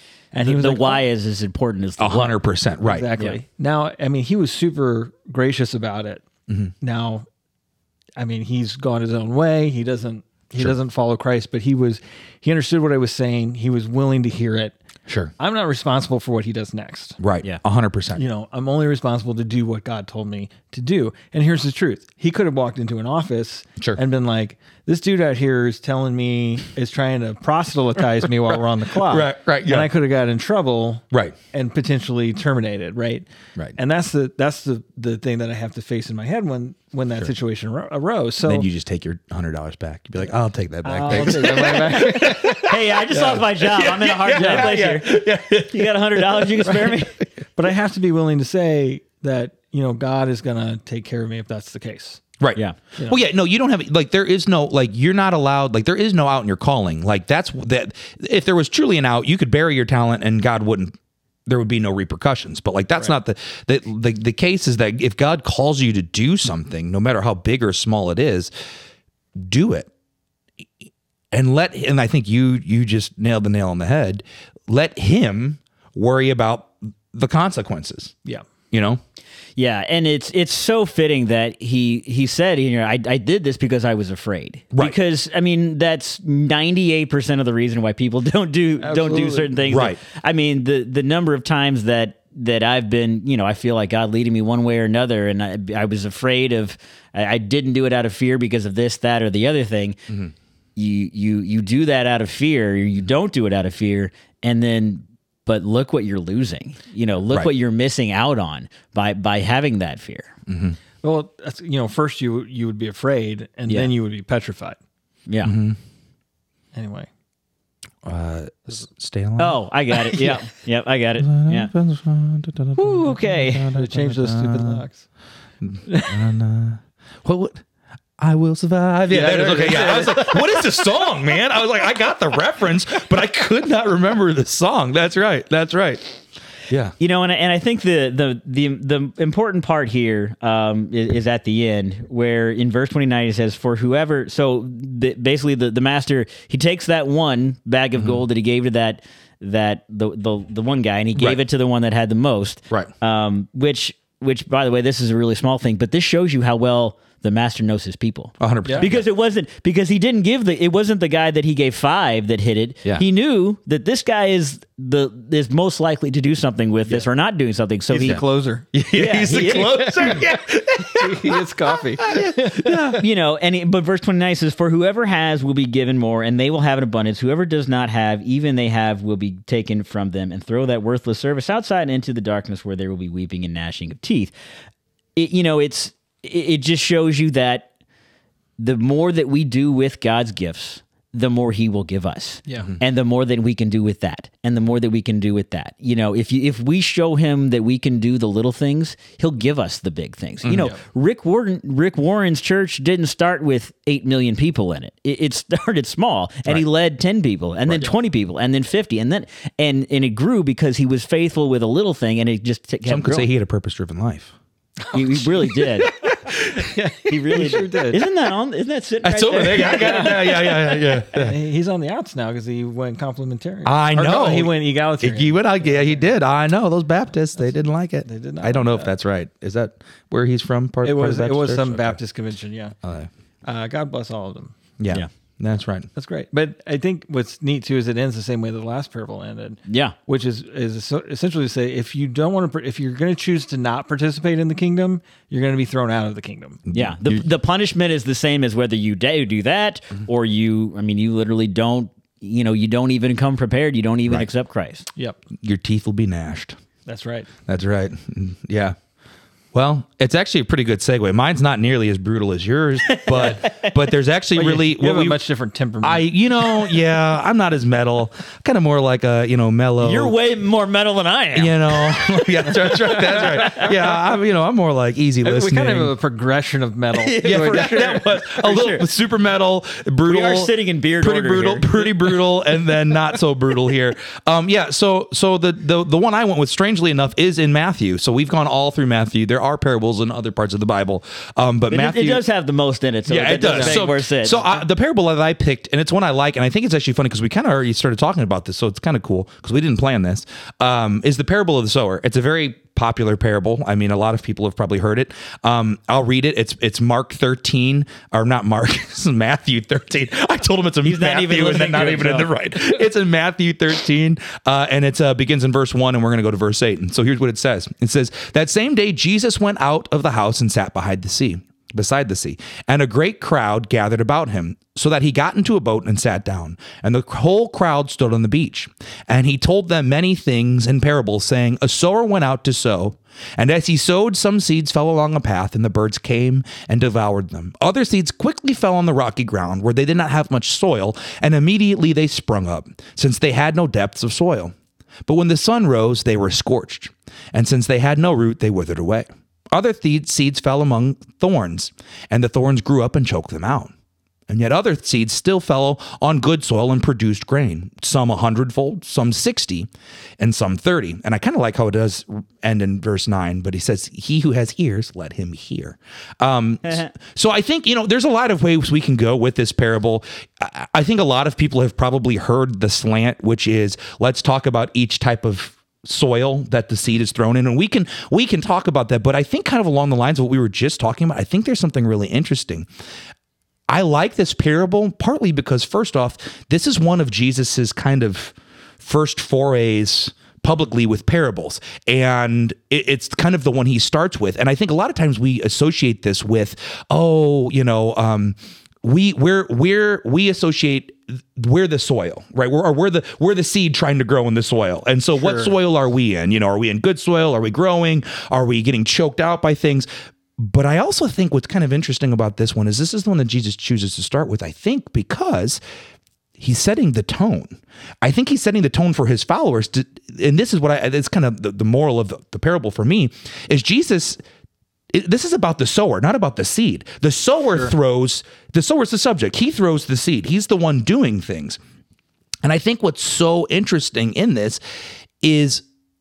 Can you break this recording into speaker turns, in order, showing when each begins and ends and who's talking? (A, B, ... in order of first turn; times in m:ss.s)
0:00.3-0:01.0 A
0:00.4-0:02.4 B
0:02.0-0:03.1 C
0:02.8-0:06.2 A
0:06.8-0:07.2 A
0:08.2-0:14.7 A
0:15.1-0:15.3 C
0:15.4-0:17.2 A
0:17.2-0:18.2 C
0:18.1-0:38.7 A
0:28.9-0:29.9 C
0:38.4-0:47.0 C
0:40.8-0:43.4 A
0:41.9-0:47.1 B
0:44.3-0:44.7 A
0:47.6-0:52.2 A
0:52.4-1:00.9 C
1:01.4-1:08.5 C
1:09.4-1:09.9 C
1:11.3-1:18.1 C
1:18.7-1:19.0 C
1:19.6-1:40.0 B
1:28.8-1:29.8 A
1:29.7-1:30.0 C
1:40.8-1:50.3 B
1:50.5-1:50.8 C
1:51.0-1:54.8 A
1:55.3-1:55.5 B
1:55.4-1:55.8 C
1:56.7-1:57.1 A
1:58.0-2:00.4 C
1:59.4-2:01.7 B
2:01.2-2:04.8 C
2:02.8-2:03.7 B
2:03.7-2:05.0 A
2:05.6-2:07.6 C
2:05.9-2:06.2 A
2:08.2-2:16.1 C
2:09.1-2:10.8 A
2:16.7-2:16.9 C
2:17.0-2:48.2 B
2:28.0-2:28.2 C
2:38.4-2:39.0 C
2:47.9-2:53.0 A
2:48.7-2:51.4 C
2:48.9-2:50.2 B
2:52.0-2:53.0 C
2:53.0-3:04.3 B
3:05.2-3:07.7 B
3:08.6-3:33.3 B
3:20.4-3:20.7 C
3:20.6-3:20.8 A
3:27.7-3:27.9 C
3:32.8-3:34.3 C
3:34.9-3:36.0 B
3:35.1-3:38.0 A
3:37.1-3:40.4 B
3:39.0-3:41.4 C
3:39.6-3:46.1 A
3:43.6-3:52.0 C
3:48.0-3:48.9 A
3:50.8-3:52.8 A
3:52.8-3:53.1 C
3:53.4-3:54.6 A
3:54.8-3:55.9 C
3:55.9-4:06.6 A
3:59.7-3:59.9 B
4:06.7-4:07.2 C
4:06.7-4:14.9 B
4:15.4-4:16.6 C
4:16.8-4:17.3 A
4:17.5-4:18.8 C
4:19.5-4:25.2 C
4:22.8-4:23.8 B
4:24.3-4:26.1 A
4:25.8-4:30.1 C
4:29.8-4:33.7 B
4:31.3-4:35.9 C
4:32.7-4:33.7 A
4:35.2-4:38.0 A
4:36.9-4:38.9 B
4:37.2-4:52.2 C
4:40.0-4:42.6 B
4:51.7-4:54.4 B
4:53.1-5:44.5 C
4:53.4-4:53.8 A
5:10.8-5:12.3 B
5:45.0-5:53.7 C
5:54.3-6:22.7 C
6:23.7-6:55.6 C
6:45.2-6:45.5 A
6:56.4-7:04.2 C
7:04.9-7:11.6 C
7:12.4-7:14.6 C
7:15.2-7:15.6 C